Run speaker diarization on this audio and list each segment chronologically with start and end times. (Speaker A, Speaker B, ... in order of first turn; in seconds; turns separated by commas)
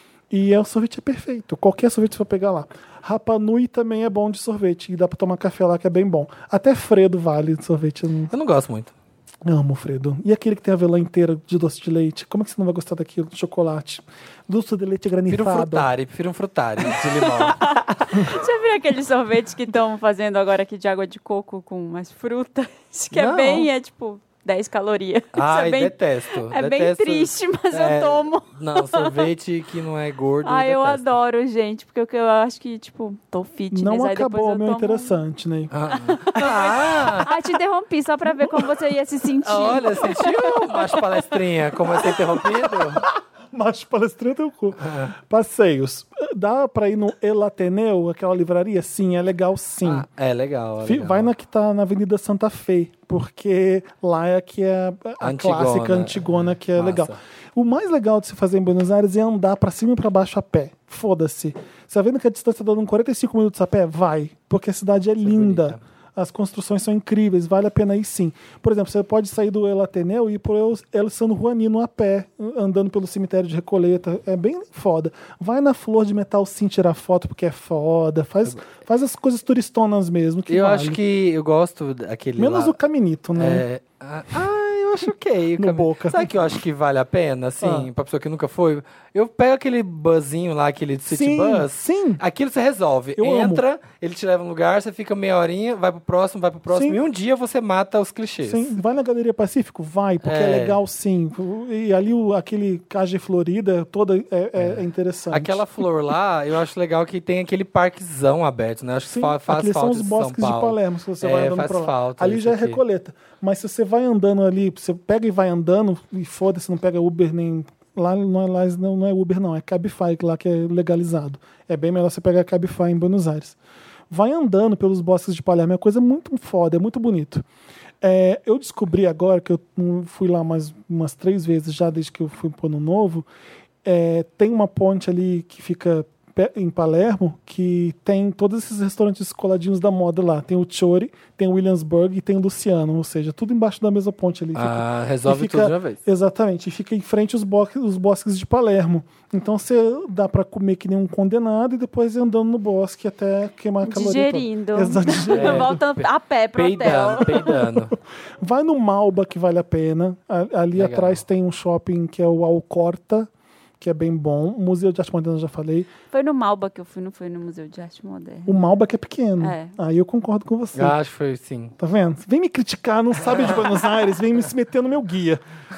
Speaker A: 0.3-8.3, Speaker B: 8.3-8.9, Speaker A: 9.4-15.9, Speaker B: 15.3-17.6, Speaker C: 16.9-29.2, Speaker B: 23.1-23.7, Speaker B: 25.3-31.1, Speaker C: 30.4-35.2, Speaker A: 33.7-35.7, Speaker B: 35.7-37.3, Speaker C: 35.9-41.2, Speaker B: 39.4-43.0, Speaker A: 42.4-50.1, Speaker B: 44.8-45.1, Speaker B: 49.8-51.3, Speaker A: 50.8-81.0, Speaker B: 55.2-57.2, Speaker B: 65.2-65.8, Speaker B: 80.5-82.8, Speaker A: 82.4-83.6, Speaker B: 83.3-98.7, Speaker A: 85.5-86.5, Speaker A: 87.6-87.9, Speaker A: 91.1-92.2, Speaker A: 93.2-93.6, Speaker A: 96.7-97.0, Speaker A: 98.4-105.6, Speaker B: 100.2-100.8, Speaker B: 104.6-112.8, Speaker A: 109.0-123.5, Speaker A: 124.1-127.4, Speaker A: 128.0-133.3, Speaker A: 133.8-155.8, Speaker B: 144.5-146.0, Speaker C: 153.8-157.6, Speaker B: 155.3-157.9, Speaker A: 157.6-163.3, Speaker B: 160.7-161.2, Speaker A: 163.8-165.9, Speaker C: 166.1-168.5, Speaker A: 168.4-170.9, Speaker C: 169.4-169.7, Speaker B: 170.7-171.7, Speaker A: 171.8-175.4